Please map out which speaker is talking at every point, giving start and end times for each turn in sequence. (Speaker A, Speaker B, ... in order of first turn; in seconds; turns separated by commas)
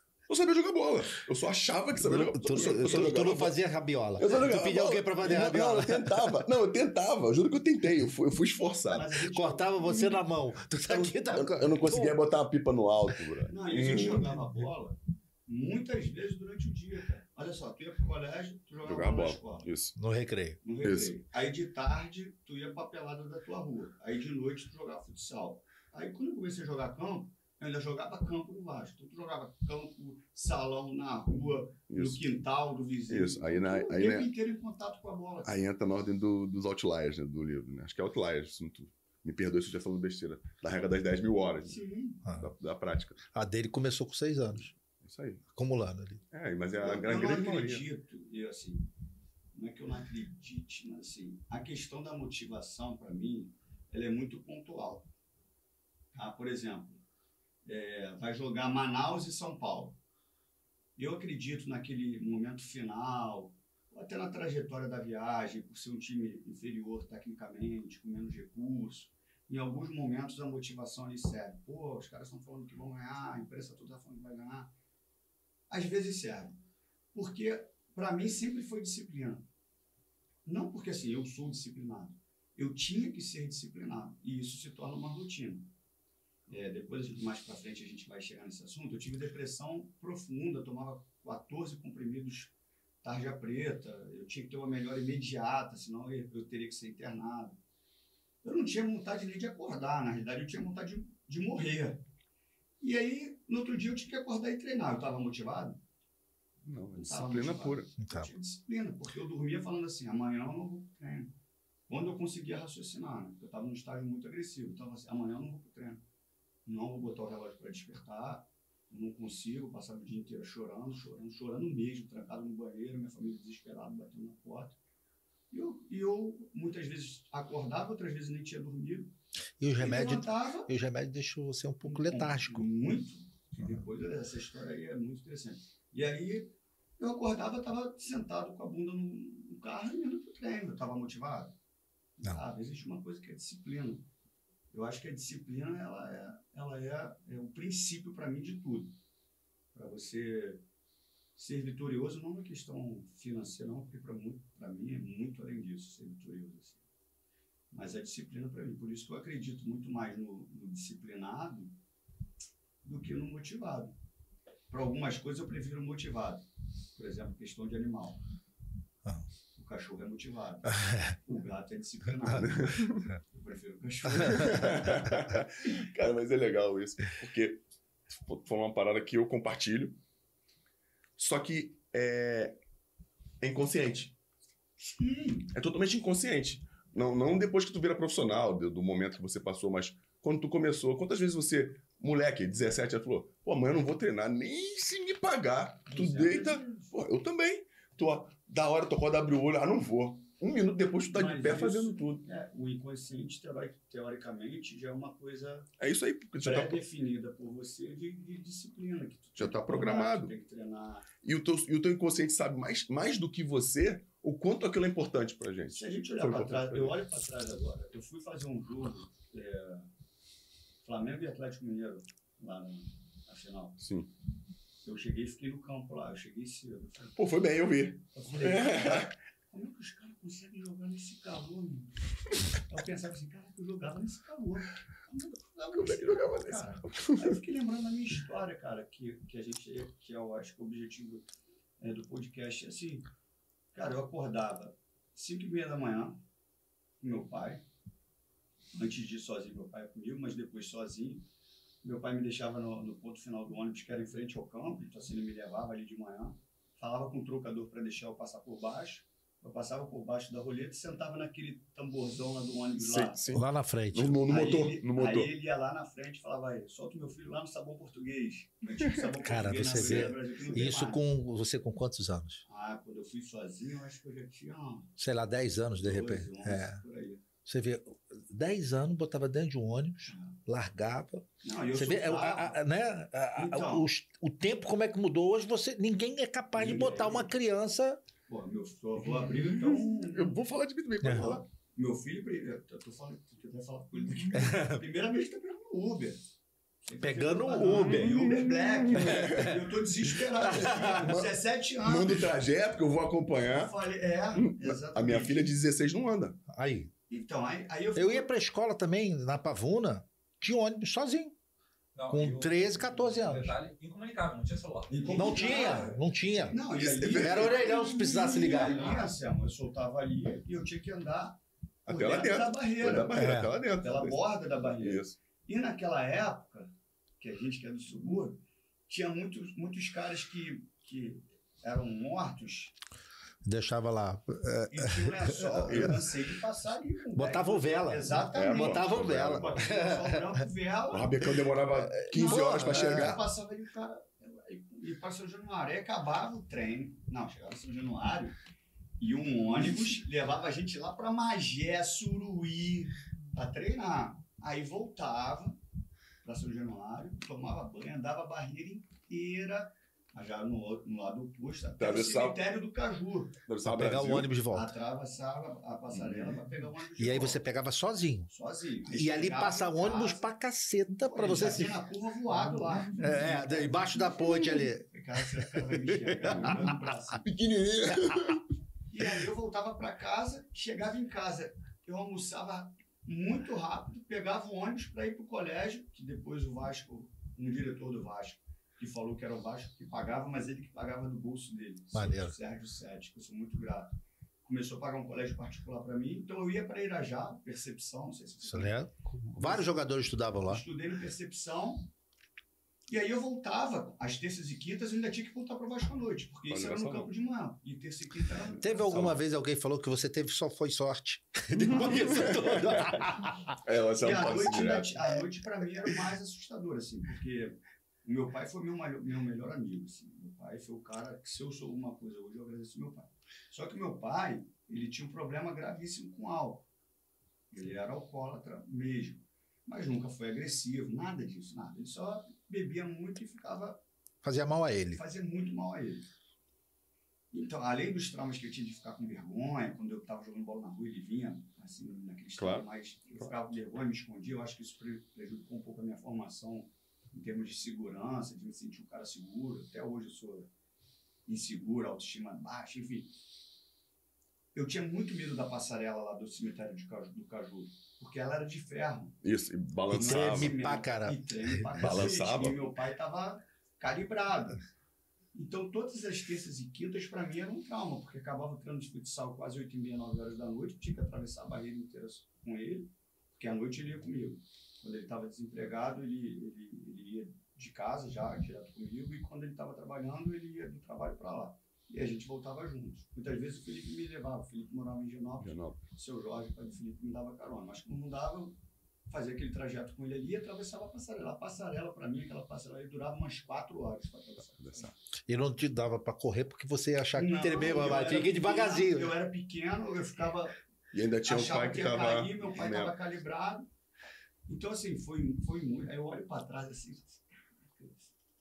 Speaker A: 0.3-3.5, Speaker B: 2.0-6.4, Speaker A: 4.2-9.1, Speaker C: 8.9-10.1, Speaker B: 9.3-12.2, Speaker A: 11.3-14.4, Speaker C: 13.5-19.7, Speaker A: 18.8-19.9, Speaker B: 19.9-20.6, Speaker C: 20.6-35.6, Speaker A: 20.8-21.2, Speaker A: 31.9-32.3, Speaker A: 33.1-34.3, Speaker A: 35.4-41.8, Speaker C: 41.6-42.2, Speaker A: 42.4-43.2, Speaker B: 43.3-44.7, Speaker A: 44.9-45.4, Speaker B: 45.5-46.2, Speaker A: 46.3-47.9, Speaker C: 46.8-48.9, Speaker C: 49.5-55.1, Speaker C: 56.1-57.0, Speaker C: 57.6-60.0, Speaker C: 61.0-74.7, Speaker C: 75.7-76.6, Speaker C: 77.1-79.4, Speaker C: 80.4-85.7, Speaker C: 86.5-97.5, Speaker C: 98.4-102.0, Speaker C: 102.8-105.8, Speaker A: 106.6-107.9, Speaker C: 107.0-111.3, Speaker B: 108.0-108.3, Speaker C: 111.9-116.0, Speaker C: 116.7-124.8, Speaker C: 125.5-129.1, Speaker B: 129.6-132.7, Speaker C: 129.8-130.7, Speaker C: 131.8-141.5, Speaker C: 142.2-144.1, Speaker C: 144.7-148.9, Speaker C: 149.7-150.6, Speaker C: 151.3-156.8, Speaker C: 157.7-161.8, Speaker C: 162.8-163.9, Speaker C: 164.7-168.2, Speaker C: 169.5-175.2, Speaker A: 172.3-173.1, Speaker A: 174.3-180.0, Speaker A: 181.2-182.6, Speaker A: 183.4-184.2, Speaker C: 184.8-185.5, Speaker A: 185.5-202.2, Speaker C: 195.9-196.9, Speaker C: 201.1-205.7, Speaker A: 205.8-206.8, Speaker C: 206.4-211.1, Speaker A: 209.3-210.3, Speaker A: 211.2-217.0, Speaker C: 215.7-219.9, Speaker C: 220.8-223.8, Speaker A: 223.8-224.1, Speaker C: 224.8-227.3, Speaker A: 227.2-229.1, Speaker C: 228.1-241.2, Speaker A: 235.7-237.4, Speaker C: 241.8-243.1, Speaker C: 243.7-246.2, Speaker C: 247.0-247.6, Speaker C: 248.7-251.2, Speaker C: 251.8-263.2, Speaker A: 262.8-265.3, Speaker B: 263.3-264.1, Speaker C: 264.2-271.0, Speaker B: 269.2-272.4, Speaker C: 272.4-274.9, Speaker B: 275.0-276.8, Speaker C: 275.8-277.2, Speaker B: 277.4-288.0, Speaker C: 280.0-280.4, Speaker C: 281.4-282.6, Speaker C: 283.3-283.8, Speaker C: 286.6-287.3, Speaker C: 288.3-290.4, Speaker A: 289.8-291.4, Speaker B: 291.0-291.3, Speaker C: 291.1-296.2, Speaker B: 294.3-294.8, Speaker C: 296.8-302.3, Speaker B: 297.0-299.6, Speaker A: 299.0-299.4, Speaker A: 301.0-301.3, Speaker A: 301.8-303.8, Speaker C: 303.5-305.5, Speaker A: 304.3-306.4, Speaker B: 306.5-306.9, Speaker C: 307.1-308.3, Speaker B: 307.9-311.3, Speaker D: 311.9-315.7, Speaker B: 312.1-313.6, Speaker C: 314.9-323.2, Speaker B: 315.1-319.1, Speaker A: 316.7-317.7, Speaker A: 321.9-325.2, Speaker B: 323.1-323.5, Speaker C: 323.8-332.7, Speaker B: 333.4-336.0, Speaker C: 334.7-341.3, Speaker A: 335.7-336.0, Speaker B: 337.1-340.4, Speaker A: 338.3-339.5, Speaker A: 340.9-343.2, Speaker C: 341.9-348.3, Speaker B: 342.7-343.0, Speaker C: 349.0-355.6, Speaker C: 356.2-363.4, Speaker A: 361.8-362.4, Speaker A: 363.5-364.3, Speaker B: 363.6-364.7, Speaker C: 364.5-367.4, Speaker A: 365.9-366.4, Speaker B: 367.0-368.3, Speaker C: 368.3-370.3, Speaker B: 368.9-371.8, Speaker C: 371.1-377.2, Speaker B: 372.3-376.8, Speaker A: 376.2-376.6, Speaker A: 377.2-378.4, Speaker C: 378.9-393.9, Speaker B: 391.9-392.3, Speaker C: 394.4-399.9, Speaker B: 398.4-400.6, Speaker C: 400.4-401.9, Speaker C: 402.9-409.1, Speaker A: 406.5-407.1, Speaker B: 408.6-413.6, Speaker A: 408.7-409.2, Speaker A: 411.5-415.1, Speaker C: 414.0-426.7, Speaker C: 427.5-433.8, Speaker B: 434.2-435.0, Speaker C: 434.9-436.1, Speaker C: 437.3-450.5, Speaker A: 442.4-442.7, Speaker C: 451.2-453.1, Speaker C: 454.5-459.2, Speaker A: 459.2-460.6, Speaker C: 459.9-464.6, Speaker B: 459.9-461.8, Speaker A: 461.8-462.6, Speaker C: 465.3-488.5, Speaker A: 485.4-485.8, Speaker C: 489.1-494.9, Speaker A: 494.6-494.9, Speaker B: 495.2-499.1, Speaker C: 497.2-500.6, Speaker A: 500.9-502.9, Speaker C: 501.2-503.6, Speaker C: 504.5-508.1